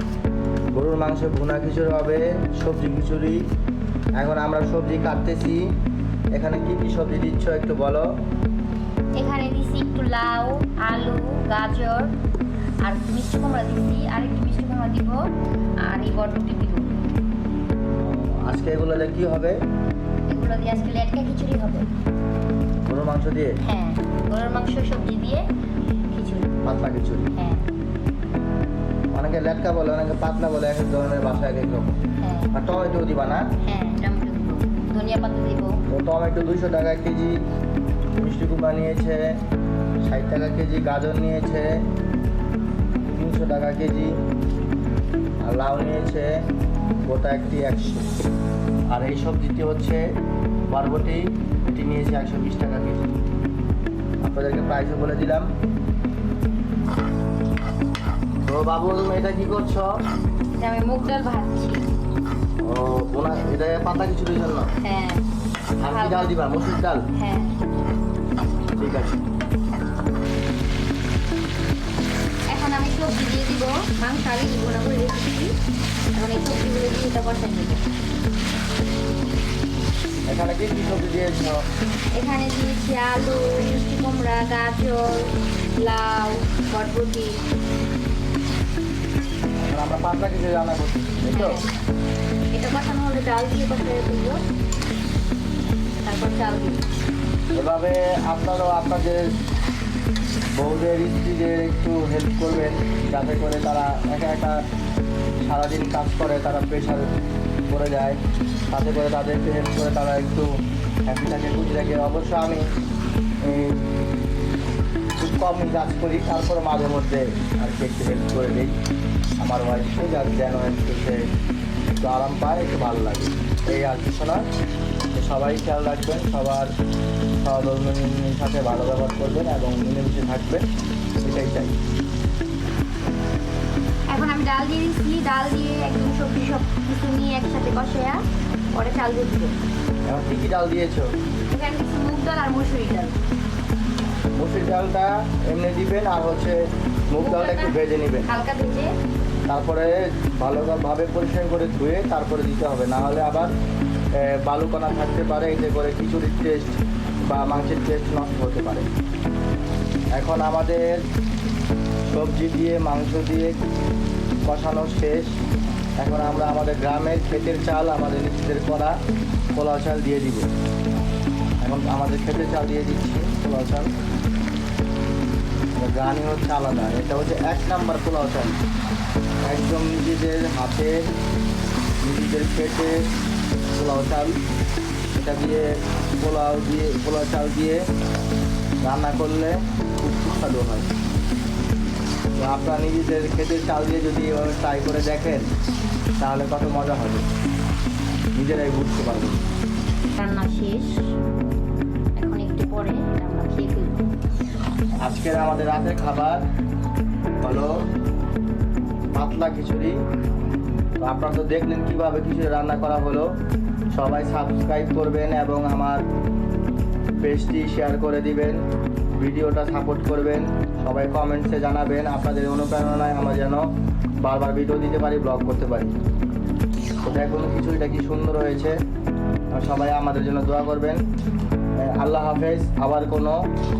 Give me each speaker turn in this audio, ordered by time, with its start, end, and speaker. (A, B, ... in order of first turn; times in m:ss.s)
0:00.7-0:03.4 A
0:04.2-0:05.7 A
0:06.3-0:08.1 A
0:09.2-0:12.1 B
0:12.8-0:15.2 B
0:15.8-0:17.0 B
0:18.0-0:19.6 A
0:20.3-0:21.9 B
0:22.9-0:23.6 A
0:23.6-0:25.4 B
0:26.1-0:26.5 B
0:26.6-0:27.3 A
0:27.4-0:27.7 B
0:29.1-0:32.0 A
0:32.2-0:32.5 B
0:32.5-0:33.5 A
0:33.6-0:35.8 B
0:35.9-0:37.4 A
0:38.2-0:39.3 A
0:40.0-0:41.8 A
0:43.0-0:44.1 A
0:45.4-0:46.5 A
0:47.1-0:48.1 A
0:48.9-0:50.0 A
0:50.7-0:53.1 A
0:54.2-0:55.5 A
0:58.4-0:59.9 A
1:00.6-1:01.8 B
1:02.6-1:04.7 A
1:04.8-1:05.2 B
1:05.8-1:07.0 A
1:05.9-1:06.4 B
1:07.2-1:07.6 B
1:08.8-1:09.2 A
1:12.5-1:15.5 B
1:16.2-1:17.8 B
1:20.3-1:21.6 A
1:22.2-1:27.4 B
1:29.7-1:31.6 A
1:31.3-1:31.7 B
1:32.5-1:34.4 B
1:36.0-1:36.8 B
1:37.5-1:39.4 A
1:40.6-1:44.6 A
1:45.4-1:47.1 A
1:47.7-1:48.2 A
1:48.7-1:50.5 A
1:51.1-1:52.7 A
1:53.4-1:53.8 A
1:55.2-1:58.8 A
1:59.4-2:01.2 A
2:01.9-2:04.4 A
2:05.2-2:06.7 A
2:07.4-2:10.6 A
2:11.2-2:11.8 A
2:14.1-2:18.2 B
2:18.7-2:19.6 B
2:20.1-2:21.1 A
2:21.5-2:23.2 B
2:24.4-2:28.3 A
2:27.2-2:28.9 B
2:29.5-2:33.5 A
2:34.2-2:38.9 A
2:40.2-2:41.0 A
2:42.1-2:43.6 A
2:44.5-2:45.4 A
2:46.0-2:49.0 A
2:49.5-2:50.5 A
2:51.6-2:53.9 A
2:55.8-2:58.6 A
2:59.4-3:01.0 A
3:02.0-3:03.1 A
3:03.7-3:04.4 A
3:05.1-3:07.8 A
3:08.8-3:10.9 A
3:12.4-3:15.5 A
3:16.2-3:17.2 A
3:18.4-3:19.4 A
3:20.2-3:21.0 B
3:22.2-3:24.0 B
3:25.0-3:26.4 A
3:27.4-3:27.8 A
3:29.1-3:30.0 A
3:31.0-3:33.3 A
3:33.9-3:36.0 A
3:37.2-3:38.6 A
3:39.1-3:43.6 A
3:44.2-3:45.9 A
3:47.0-3:48.8 A
3:49.5-3:51.0 A
3:51.8-3:53.4 A